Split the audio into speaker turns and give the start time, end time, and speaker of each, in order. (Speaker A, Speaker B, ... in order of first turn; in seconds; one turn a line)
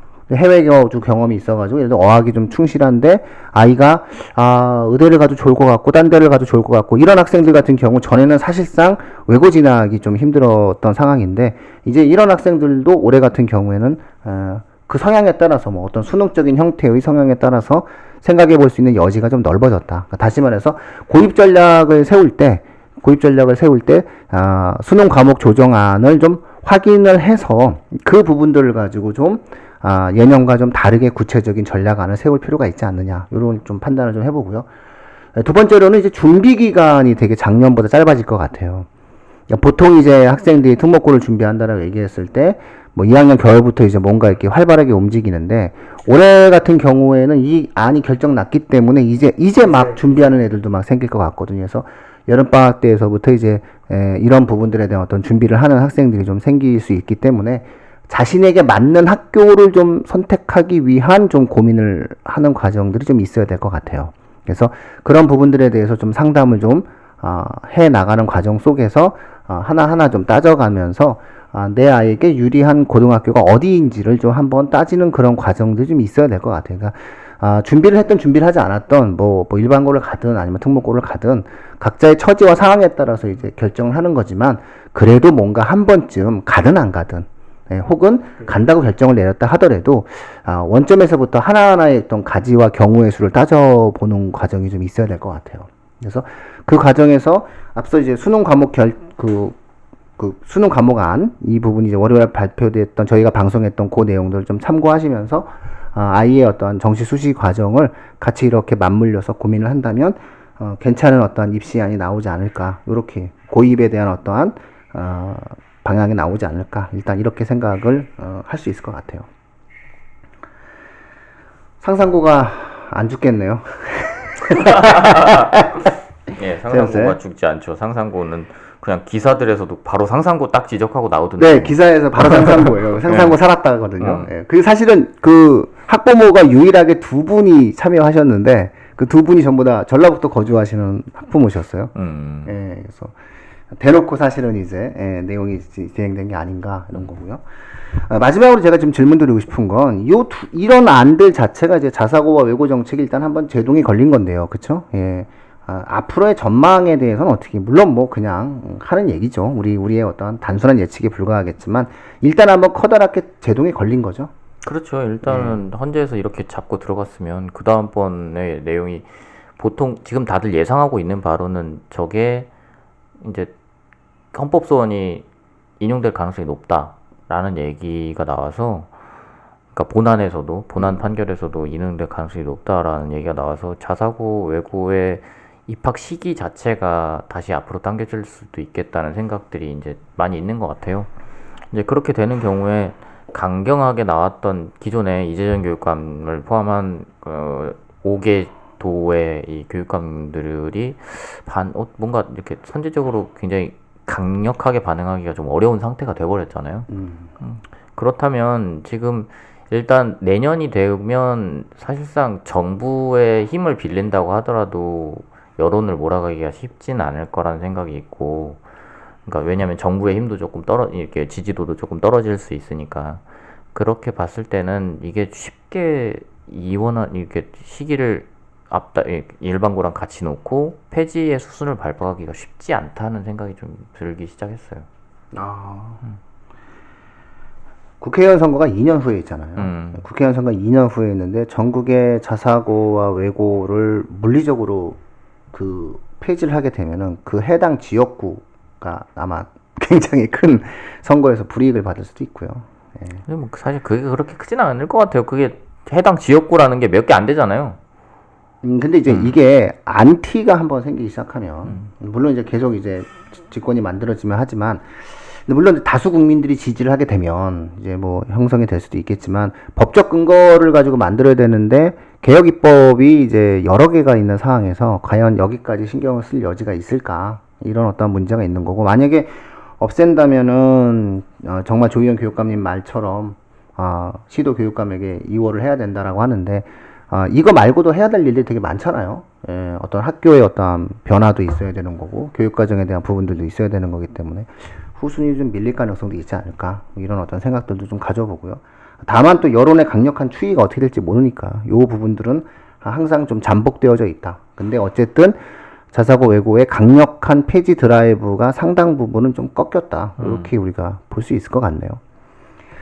Speaker A: 0.3-34.6
Speaker A: 35.4-38.9
Speaker A: 39.5-99.5
Speaker A: 100.2-119.3
Speaker A: 121.8-125.8
Speaker B: 124.8-125.4
Speaker B: 126.3-132.4
Speaker A: 126.7-127.2
Speaker A: 131.4-141.9
Speaker B: 133.1-133.3
Speaker B: 134.0-134.3
Speaker B: 141.9-142.5
Speaker A: 142.4-143.1
Speaker A: 143.7-164.3
Speaker B: 164.6-172.5
Speaker A: 165.2-165.6
Speaker B: 173.2-173.5
Speaker B: 174.3-175.2
Speaker B: 175.8-178.9
Speaker B: 179.7-191.1
Speaker B: 191.7-206.9
Speaker A: 206.9-207.3
Speaker B: 207.4-218.6
Speaker B: 219.2-223.2
Speaker B: 223.7-234.8
Speaker A: 235.3-236.0
Speaker A: 238.0-245.0
Speaker B: 239.6-240.0
Speaker A: 245.5-253.2
Speaker B: 253.2-257.8
Speaker A: 258.6-305.4
Speaker B: 259.1-259.3
Speaker A: 305.9-312.0
Speaker B: 310.2-310.5